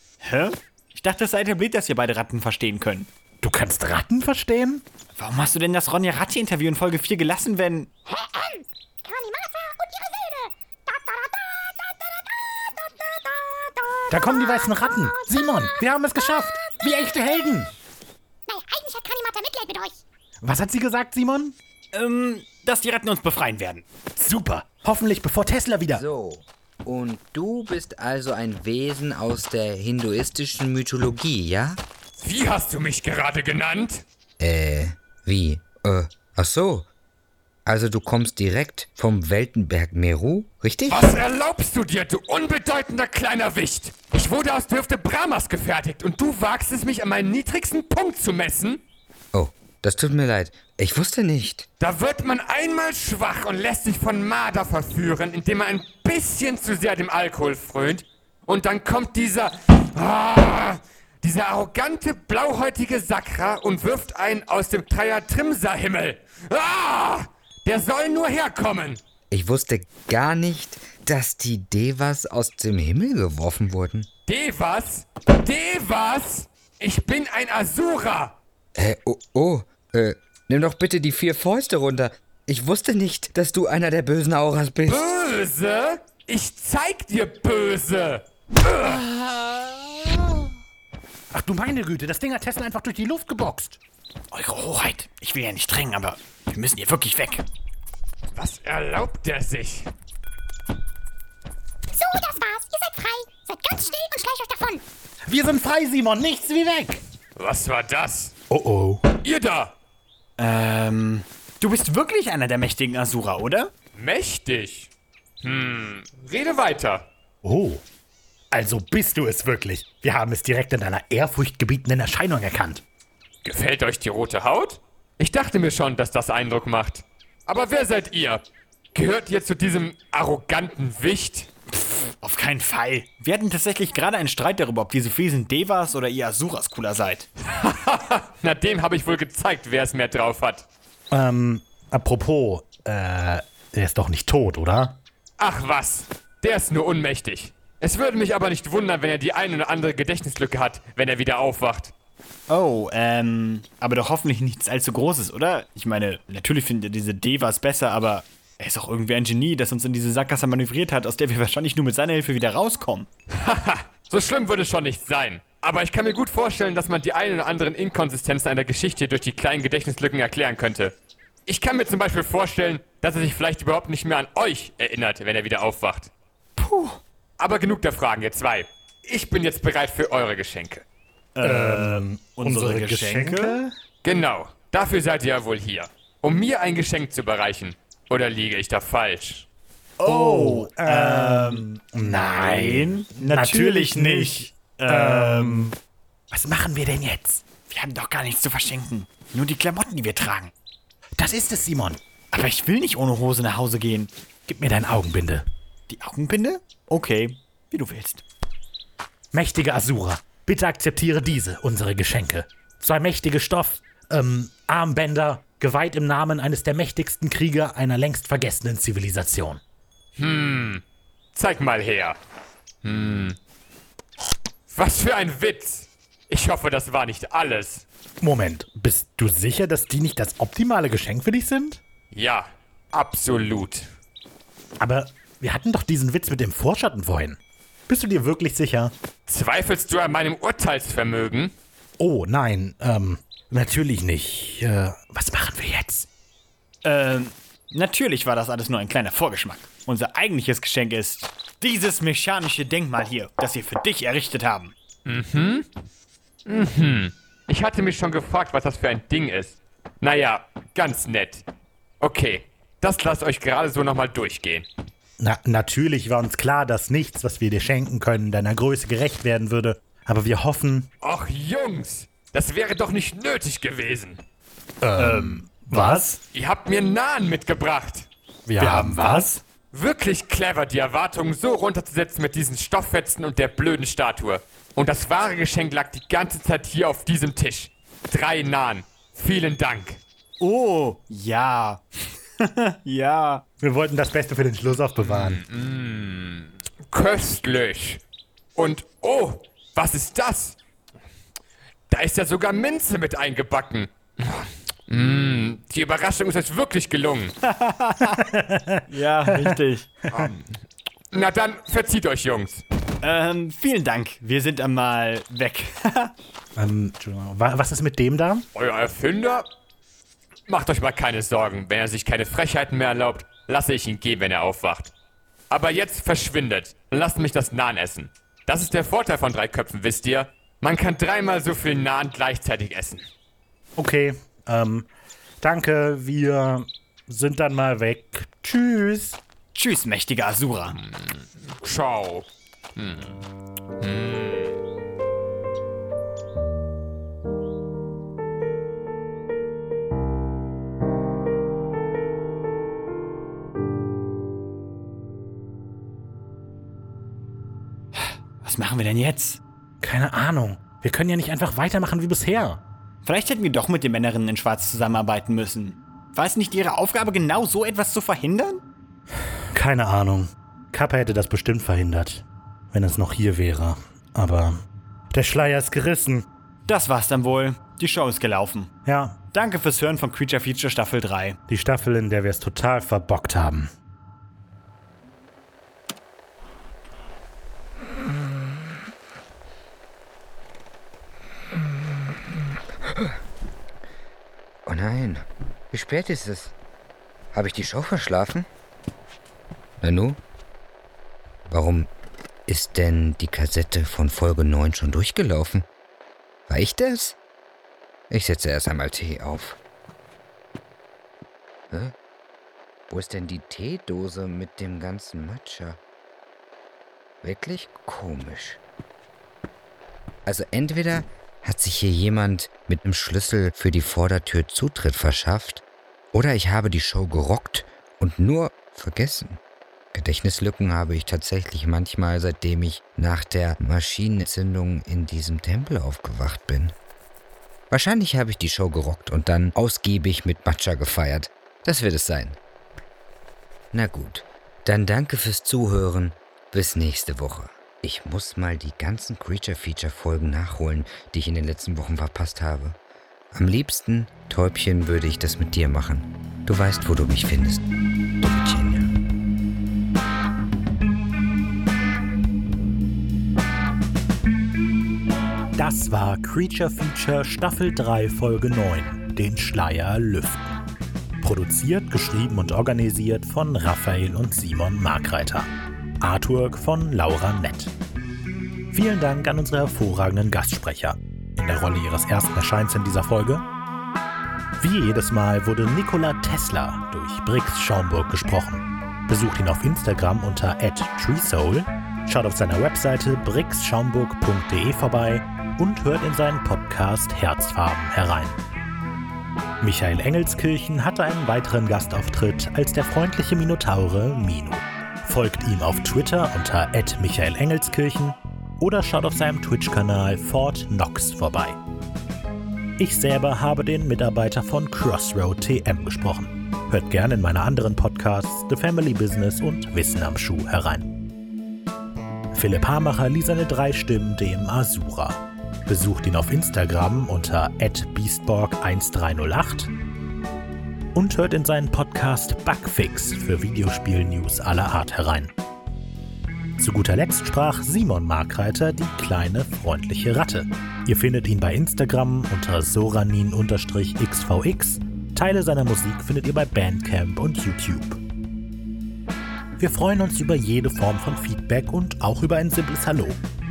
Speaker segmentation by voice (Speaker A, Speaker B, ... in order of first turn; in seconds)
Speaker A: 0.2-3.1, 5.2-7.9, 21.9-23.9, 94.3-97.5, 110.4-113.7, 132.2-137.3, 152.5-163.1, 176.6-177.0, 181.3-183.6, 190.0-195.7, 197.7-200.5, 202.3-204.1, 205.9-208.2, 246.8-254.7, 275.0-276.2, 278.6-279.4, 290.4-293.4, 307.4-308.2, 308.9-309.9, 313.0-316.1, 339.5-340.8, 358.0-359.4, 363.1-368.6, 376.7-378.7, 379.3-381.4
Speaker B: 3.4-4.8, 14.1-17.7, 20.4-21.6, 24.2-26.0, 91.3-93.8, 105.3-107.0, 108.5-109.0, 117.4-117.8, 118.5-122.8, 141.1-145.0, 181.4-183.7, 190.1-195.7, 196.3-197.4, 201.2-202.0, 204.5-205.4, 209.3-219.6, 228.2-231.8, 234.8-238.9, 242.0-246.1, 265.2-270.9, 274.8-276.2, 278.5-279.3, 293.6-295.4, 308.1-309.5, 316.6-318.4, 333.8-334.9, 335.4-339.2, 359.8-362.6, 369.5-376.3, 378.9-379.2, 381.5-383.7, 465.6-470.6, 471.2-477.7, 478.7-483.4, 484.6-498.4, 499.6-511.6, 512.8-520.9, 522.3-529.7, 530.9-535.3, 536.6-548.0, 549.6-553.2
Speaker C: 8.1-17.5, 18.5-20.0, 101.9-104.8
Speaker D: 25.9-31.8, 34.4-36.9, 37.7-41.2, 49.3-51.7, 69.3-74.1, 78.8-85.0, 392.9-393.1, 394.6-396.5, 397.3-398.5, 399.8-400.2, 401.5-401.9, 402.5-405.7, 406.5-407.2, 408.1-409.6, 411.7-411.9, 412.9-415.8, 417.2-418.6, 420.2-429.4, 429.9-436.8, 437.7-442.4, 443.7-452.8, 453.3-457.6, 458.2-459.0
Speaker E: 32.2-34.0, 40.9-48.8, 51.8-69.0, 74.3-78.4, 84.9-90.5, 98.3-99.9, 107.4-108.3, 109.2-109.7, 114.0-114.9, 115.4-117.1, 123.5-131.5, 137.5-140.7, 145.4-151.9, 163.3-170.9, 171.5-176.1, 177.4-180.8, 184.0-189.5, 220.2-220.8, 221.3-222.2, 222.8-223.4, 224.7-227.9, 232.1-233.9, 239.3-241.5, 255.1-255.7, 256.5-261.4, 262.0-264.7, 271.0-274.2, 276.3-278.1, 279.7-290.0, 295.0-298.0, 298.6-300.6, 301.9-307.4, 310.1-310.6, 311.1-312.6, 318.6-319.5, 320.5-324.9, 325.5-333.1, 340.9-343.2, 343.8-344.5